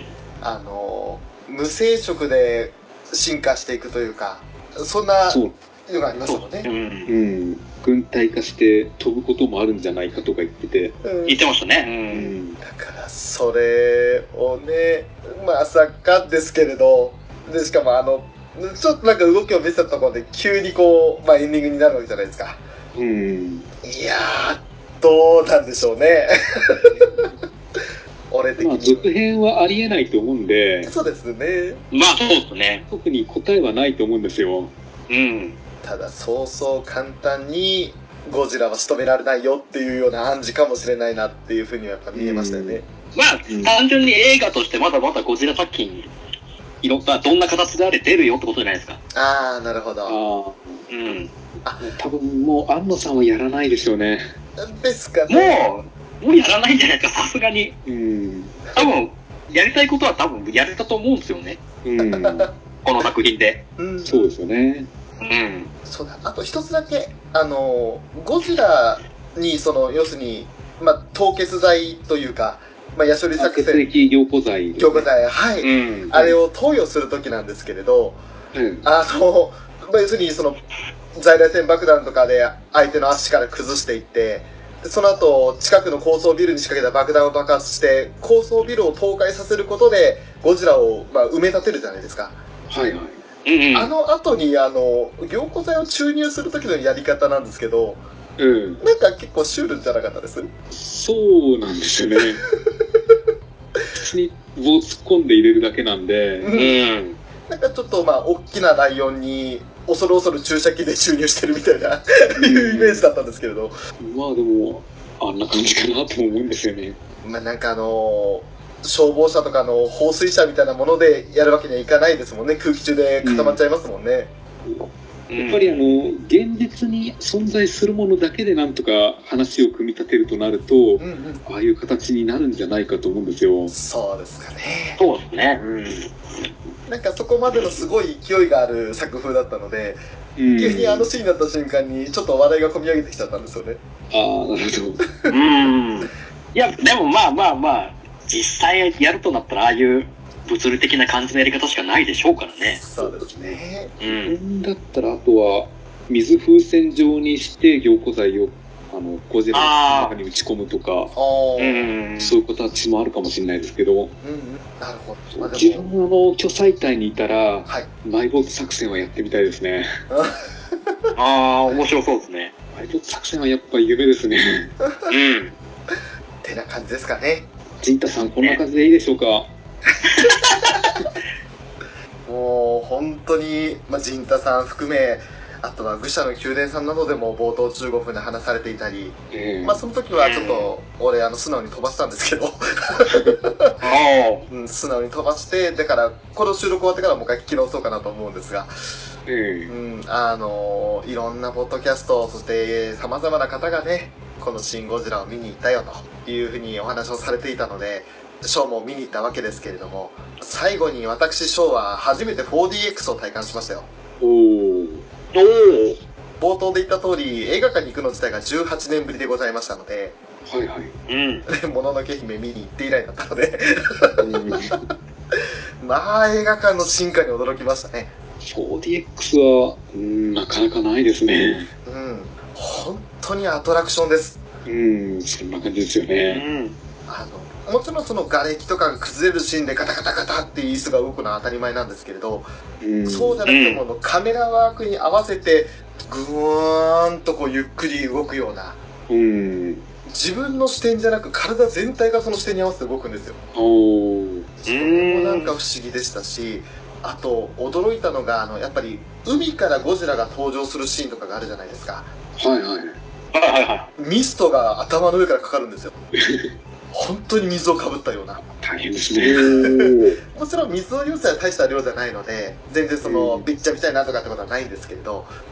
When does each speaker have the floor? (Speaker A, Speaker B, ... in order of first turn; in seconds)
Speaker A: 0.4-6.7, 11.0-11.4, 12.6-22.6, 23.8-27.3, 28.3-29.1, 30.8-31.8, 35.8-42.9, 49.1-50.2, 51.6-51.9, 54.6-55.6, 62.0-62.5, 63.8-64.1, 65.8-73.8, 74.8-78.2, 78.8-80.6, 81.1-92.4, 93.7-98.0, 98.8-100.5, 106.4-106.8, 107.5-113.8, 117.2-124.3, 131.0-131.4, 133.7-135.0, 136.9-140.0, 140.6-143.8, 152.6-153.9, 161.1-161.9, 164.2-165.9, 170.1-171.1, 174.8-175.1, 176.4-177.5, 182.2-193.8, 194.5-198.7, 199.7-213.9, 216.4-220.2, 221.5-224.8, 225.3-228.1, 231.8-234.4, 237.1-242.5, 243.0-248.8, 250.1-253.4, 254.6-262.1, 264.0-265.9, 266.9-268.4, 269.4-275.3
Speaker B: 5.3-5.5, 7.0-11.0, 12.1-12.6, 22.9-23.7, 26.9-27.3, 28.6-30.9, 32.9-34.7, 42.1-42.8, 43.5-43.8, 50.0-50.9, 51.8-54.3, 57.8-58.6, 61.8-62.5, 64.0-64.9, 73.3-75.1, 75.9-76.4, 78.5-78.9, 92.7-93.2, 98.4-98.8, 100.7-102.4, 103.9-106.5, 112.4-113.1, 114.0-117.0, 123.2-123.6, 124.6-133.7, 135.6-136.1, 140.3-141.1, 144.1-145.0, 153.0-153.6, 154.2-161.1, 162.2-164.1, 165.3-170.0, 172.7-174.7, 177.8-179.5, 189.3-189.8, 193.1-193.4, 199.2-199.7, 214.2-215.0, 220.4-220.9, 224.2-224.8, 228.4-231.7, 234.7-236.4, 242.8-243.4, 249.1-249.8, 253.5-254.5, 262.4-263.0, 266.1-266.5, 268.4-269.4, 273.0-273.4
Speaker C: 6.2-7.1, 11.2-12.3, 31.9-32.8, 35.1-35.6, 43.1-46.1, 46.8-49.0, 50.9-51.3, 55.3-57.8, 58.8-61.6, 62.8-63.6, 65.2-65.7, 75.6-75.9, 93.4-93.9, 106.5-107.2, 125.3-126.0, 135.0-135.6, 145.3-152.8, 154.0-154.4, 159.5-160.1, 161.6-162.4, 171.1-172.5, 175.1-175.5, 180.1-180.6, 190.1-190.7, 193.8-194.5, 215.3-216.0, 221.1-221.4, 236.2-236.8, 243.4-243.8, 254.7-255.5, 263.3-263.9, 269.2-270.1